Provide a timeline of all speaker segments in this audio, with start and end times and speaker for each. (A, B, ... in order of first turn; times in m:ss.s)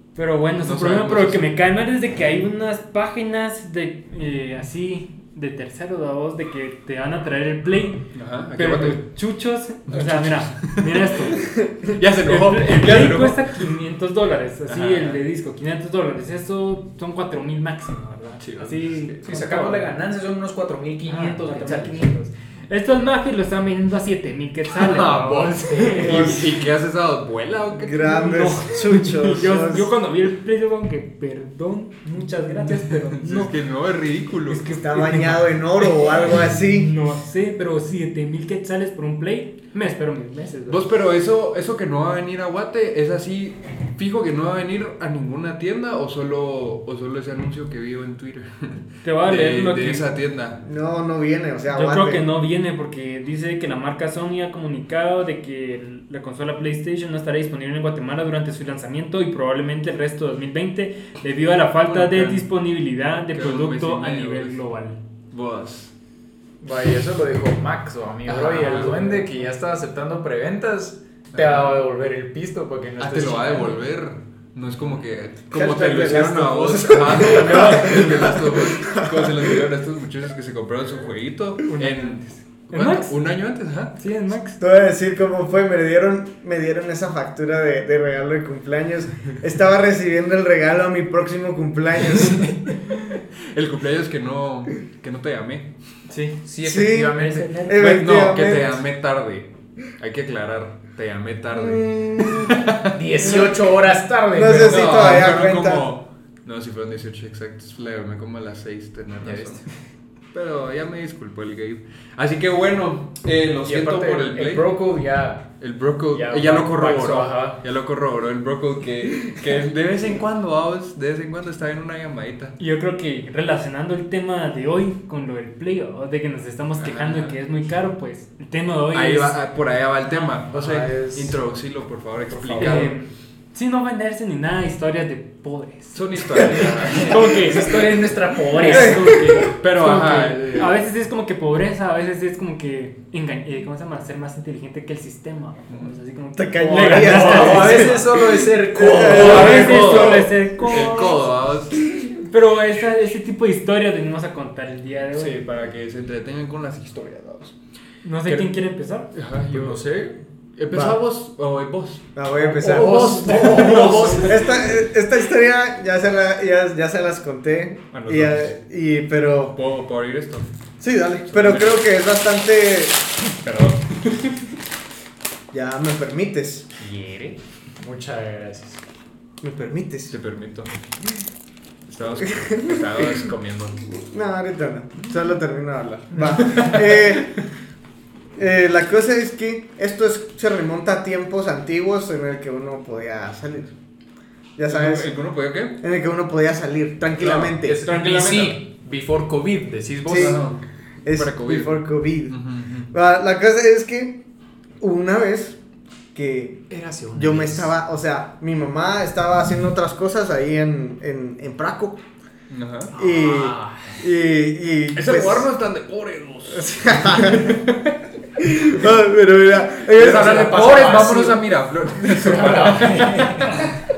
0:00.2-0:11.5 A
0:00.6-0:01.5 B
0:08.1-0:09.0 B
0:09.9-0:13.5 B
0:12.2-0:19.9 A
0:14.7-0:15.2 B
0:18.4-0:19.2 B
0:19.2-0:22.1 C
0:21.1-0:26.4 A
0:24.8-0:28.1 B
0:25.0-0:26.4 C
0:26.0-0:26.5 D
0:27.8-0:29.9 D
0:28.0-0:33.6 A
0:33.2-0:34.7 B
0:34.5-0:36.9 D
0:34.5-0:40.8 A
0:40.7-0:50.6 B
0:49.0-0:50.1 A
0:50.6-0:52.3 D
0:51.7-1:05.0 A
1:01.8-1:02.5 B
1:03.3-1:04.6 B
1:05.3-1:05.9 B
1:06.6-1:13.8 C
1:08.3-1:09.3 B
1:11.3-1:11.8 B
1:13.0-1:24.0 B
1:15.5-1:19.6 D
1:17.0-1:17.8 C
1:21.7-1:23.2 A
1:24.0-1:24.6 A
1:24.6-1:32.6 D
1:32.2-1:35.7 B
1:36.1-1:36.4 A
1:36.4-1:37.7 C
1:36.6-1:38.8 D
1:37.1-1:37.8 A
1:37.7-1:43.3 B
1:41.5-1:42.6 D
1:42.9-1:45.2 C
1:43.3-1:43.5 D
1:44.3-1:45.9 D
1:44.5-1:49.6 B
1:49.2-1:49.6 C
1:50.3-1:54.8 B
1:53.6-1:55.5 C
1:55.6-2:02.6 B
1:56.1-1:57.6 C
2:02.6-2:09.4 A
2:06.8-2:07.4 B
2:08.9-2:13.0 B
2:10.5-2:11.4 C
2:12.3-2:12.9 C
2:12.6-2:28.1 A
2:15.9-2:17.7 B
2:17.0-2:19.1 C
2:18.7-2:19.4 D
2:19.4-2:20.8 B
2:26.4-2:30.5 D
2:26.7-2:30.2 C
2:29.0-2:31.2 A
2:29.1-2:31.8 B
2:32.2-2:35.4 A
2:35.1-2:37.6 B
2:38.0-2:39.1 A
2:38.3-2:38.5 B
2:39.1-2:39.8 B
2:39.5-2:40.2 C
2:40.6-2:42.1 B
2:40.7-2:41.0 D
2:42.2-2:49.6 D
2:42.5-2:44.7 C
2:42.6-2:44.4 B
2:42.8-2:44.3 A
2:47.9-2:48.5 B
2:49.5-2:50.5 B
2:50.8-2:53.1 D
2:51.2-2:51.8 B
2:53.4-2:54.4 B
2:55.5-2:56.7 D
2:56.8-2:58.8 C
2:59.4-3:00.2 D
3:00.1-3:00.8 B
3:01.9-3:03.8 B
3:02.2-3:03.3 D
3:03.9-3:07.3 D
3:06.4-3:07.2 B
3:08.4-3:13.7 D
3:14.6-3:15.1 D
3:14.7-3:15.8 B
3:15.8-3:17.8 D
3:17.2-3:18.6 B
3:17.6-3:20.5 C
3:20.1-3:20.4 D
3:20.1-3:20.6 B
3:21.0-3:22.4 D
3:21.1-3:22.9 B
3:22.9-3:24.2 D
3:24.8-3:25.6 D
3:26.2-3:32.0 D
3:26.7-3:27.7 C
3:32.5-3:32.9 B
3:32.9-3:34.0 C
3:33.0-3:35.5 D
3:35.0-3:37.9 B
3:36.5-3:37.5 D
3:38.4-3:41.1 D
3:40.0-3:43.6 B
3:40.0-3:41.4 C
3:42.0-3:43.8 C